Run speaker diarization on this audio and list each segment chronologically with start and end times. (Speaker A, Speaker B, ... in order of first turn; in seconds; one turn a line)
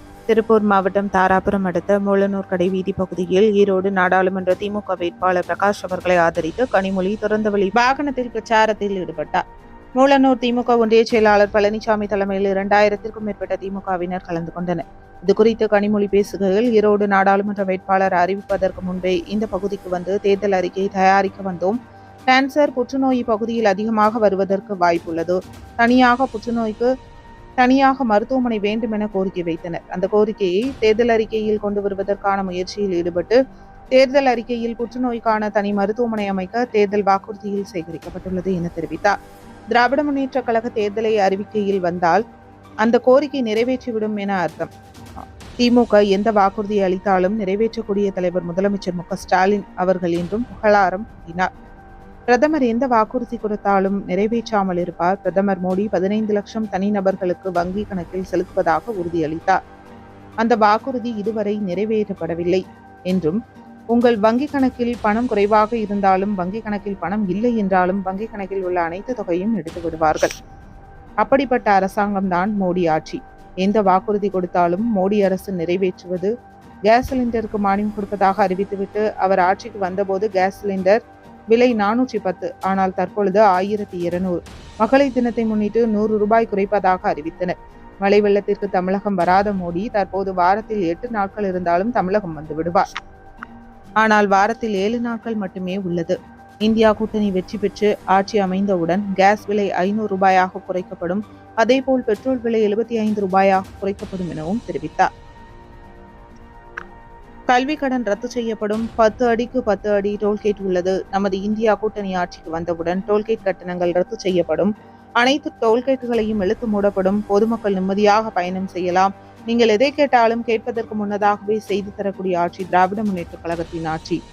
Speaker A: 0.3-9.4
Speaker A: 10.0-21.8
Speaker A: 22.3-26.9
Speaker A: 27.6-33.4
Speaker A: 33.9-39.1
Speaker A: 39.7-42.2
Speaker A: 42.8-44.7
Speaker A: 45.6-51.5
Speaker A: 52.3-59.6
Speaker A: 60.4-63.4
Speaker A: 63.9-70.3
Speaker A: 71.2-76.3
Speaker A: 76.9-81.0
Speaker A: 81.5-92.8
Speaker A: 94.0-105.1
Speaker A: 107.5-124.2